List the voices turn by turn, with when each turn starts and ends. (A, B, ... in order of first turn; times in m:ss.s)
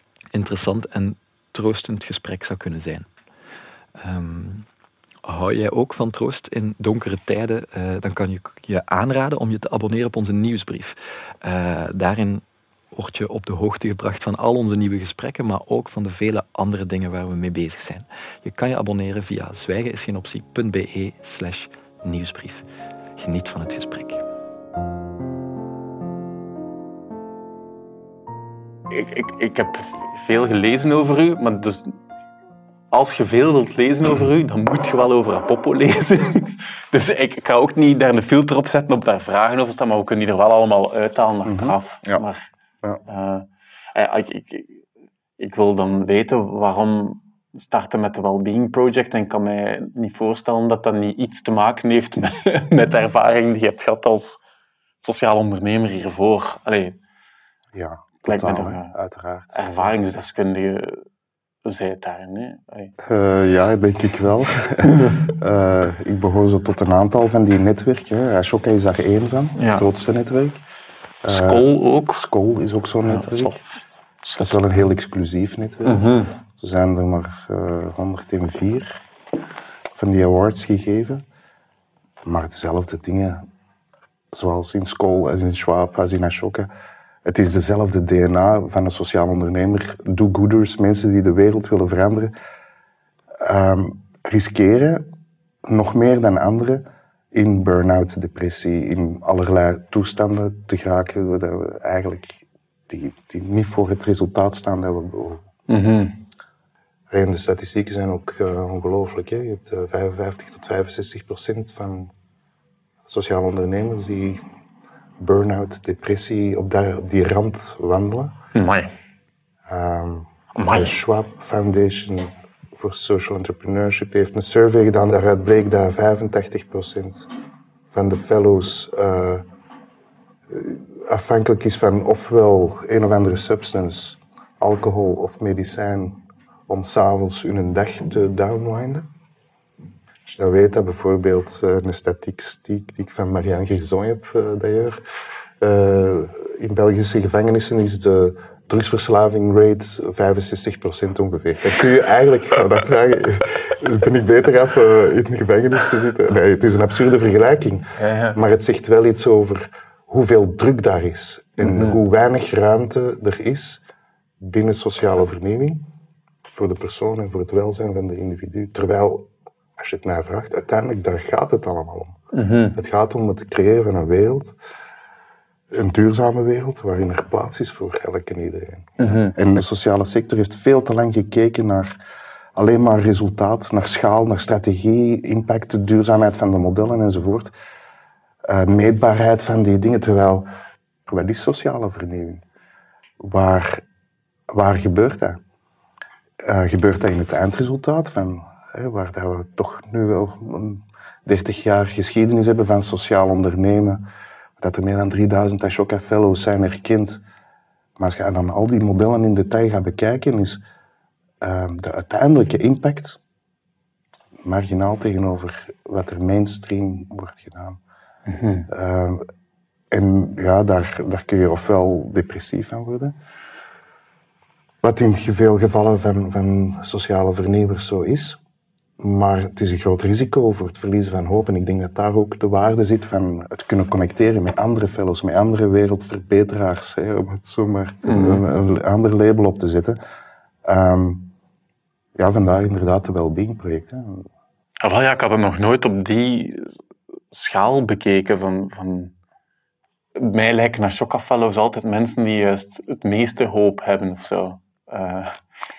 0:00.3-0:03.1 A
0:04.0-0:04.7 A
0:05.2-0:22.6 A
0:23.2-0:24.2 A
0:28.9-0:32.0 B
0:32.9-0:42.5 B
0:41.4-0:42.2 C
0:43.1-0:44.8 B
0:45.4-0:54.4 B
0:55.0-0:57.0 B
0:57.8-0:59.9 C
0:58.3-0:58.9 B
0:59.5-1:01.0 B
1:01.6-1:02.9 B
1:03.0-1:10.6 C
1:04.9-1:05.2 B
1:09.6-1:09.9 B
1:11.2-1:13.6 C
1:11.3-1:12.2 B
1:13.1-1:14.6 B
1:14.4-1:19.0 C
1:15.8-1:16.3 B
1:20.0-1:21.2 C
1:22.2-1:23.4 C
1:24.3-1:26.7 C
1:27.2-1:32.3 C
1:33.4-1:35.0 C
1:35.7-1:36.8 C
1:37.3-1:45.4 C
1:45.7-1:46.2 B
1:47.1-1:52.1 C
1:53.1-1:54.4 C
1:55.2-1:58.4 C
1:58.5-1:58.9 B
1:59.7-2:07.3 C
2:00.6-2:01.0 B
2:07.9-2:09.4 C
2:10.5-2:19.0 C
2:20.3-2:25.0 C
2:25.6-2:43.8 C
2:38.0-2:38.4 B
2:41.6-2:42.0 B
2:44.4-2:45.8 C
2:46.5-2:52.2 C
2:52.3-2:52.8 B
2:52.8-2:54.6 C
2:55.7-3:02.0 C
2:59.0-2:59.4 B
3:02.6-3:07.5 C
3:08.5-3:10.5 C
3:11.1-3:12.4 C
3:13.2-3:13.8 C
3:14.5-3:15.4 C
3:16.4-3:24.0 C
3:24.6-3:27.2 C
3:28.0-3:30.6 C
3:31.4-3:33.2 C
3:34.4-3:37.8 C
3:38.3-3:38.7 B
3:38.7-3:39.2 C
3:39.9-3:43.1 C
3:44.8-3:48.4 C
3:49.0-4:00.0 C
3:58.1-3:58.4 B
4:00.6-4:01.3 C
4:02.2-4:04.3 C
4:04.8-4:06.7 B
4:07.3-4:09.1 B
4:10.2-4:15.4 B